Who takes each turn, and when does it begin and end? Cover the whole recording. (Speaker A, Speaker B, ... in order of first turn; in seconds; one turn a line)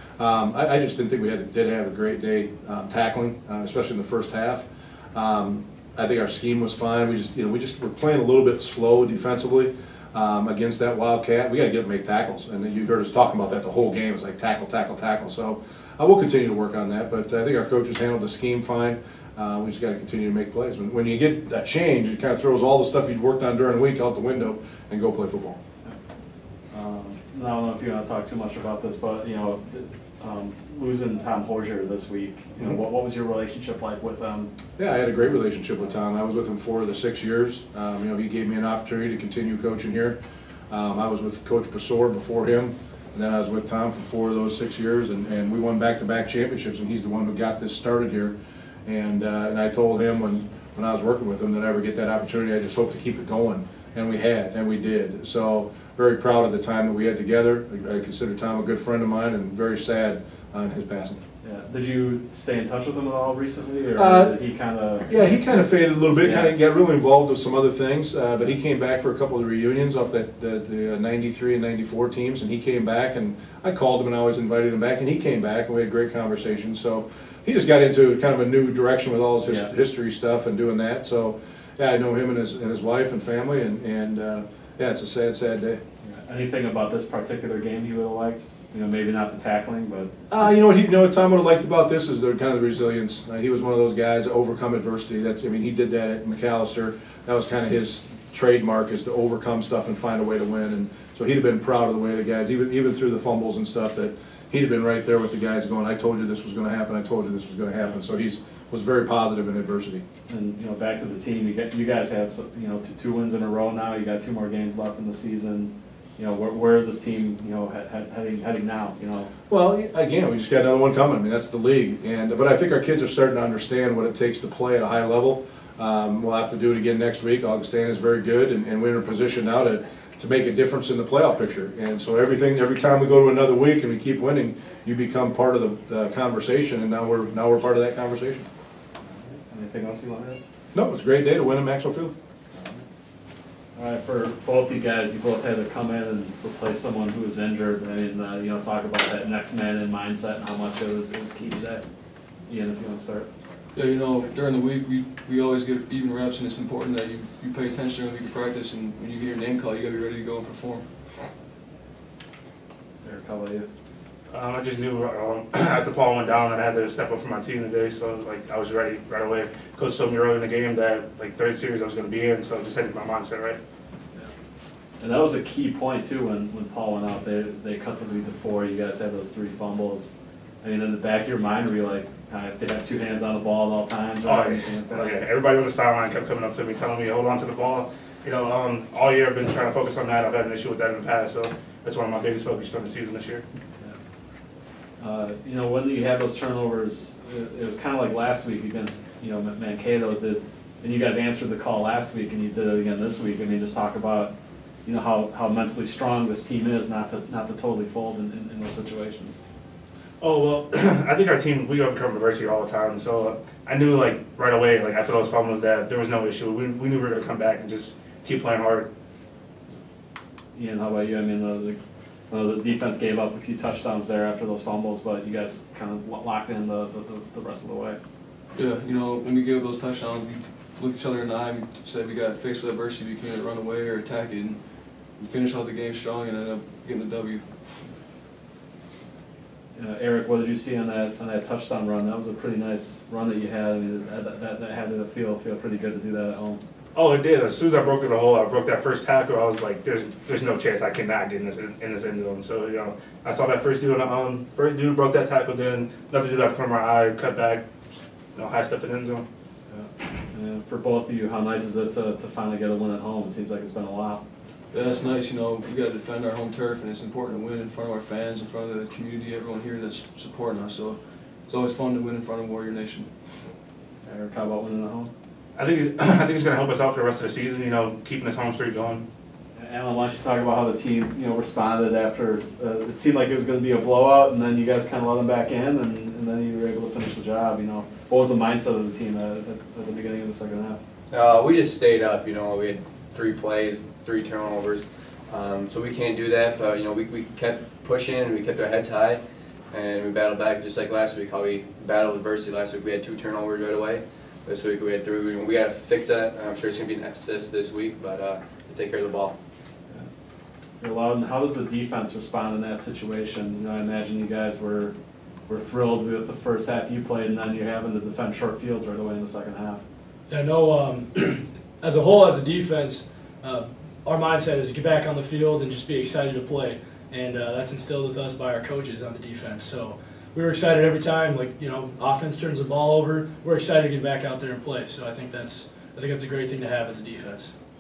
Speaker A: 0.2-25.6
Speaker B: 26.7-34.5
Speaker A: 34.8-40.2
Speaker A: 40.7-48.4
Speaker A: 48.9-61.2
Speaker B: 61.4-65.2
Speaker A: 64.0-64.3
Speaker A: 65.1-85.8
Speaker B: 66.1-66.5
Speaker B: 79.5-79.7
Speaker B: 86.0-90.1
Speaker A: 90.3-110.0
Speaker B: 110.3-119.3
Speaker A: 119.5-138.5
Speaker B: 139.0-140.4
Speaker A: 140.7-142.1
Speaker B: 142.5-142.8
Speaker B: 143.8-151.8
Speaker B: 152.5-153.3
Speaker C: 153.8-161.3
Speaker B: 163.0-163.7
Speaker D: 164.3-173.6
Speaker B: 175.0-185.2
Speaker D: 184.2-193.4
Speaker B: 195.0-204.3
Speaker B: 204.8-209.4
Speaker D: 210.2-218.9
Speaker B: 220.5-221.8
Speaker B: 222.3-228.0
Speaker C: 228.6-237.9
Speaker B: 239.8-246.6
Speaker D: 246.9-257.6
Speaker D: 258.4-259.2
Speaker B: 259.7-264.2
Speaker C: 264.7-273.5
Speaker B: 274.0-275.1
Speaker D: 275.6-279.1
Speaker B: 279.6-290.8
Speaker E: 291.1-309.4
Speaker B: 310.8-314.9
Speaker B: 315.5-319.8
Speaker F: 320.3-337.5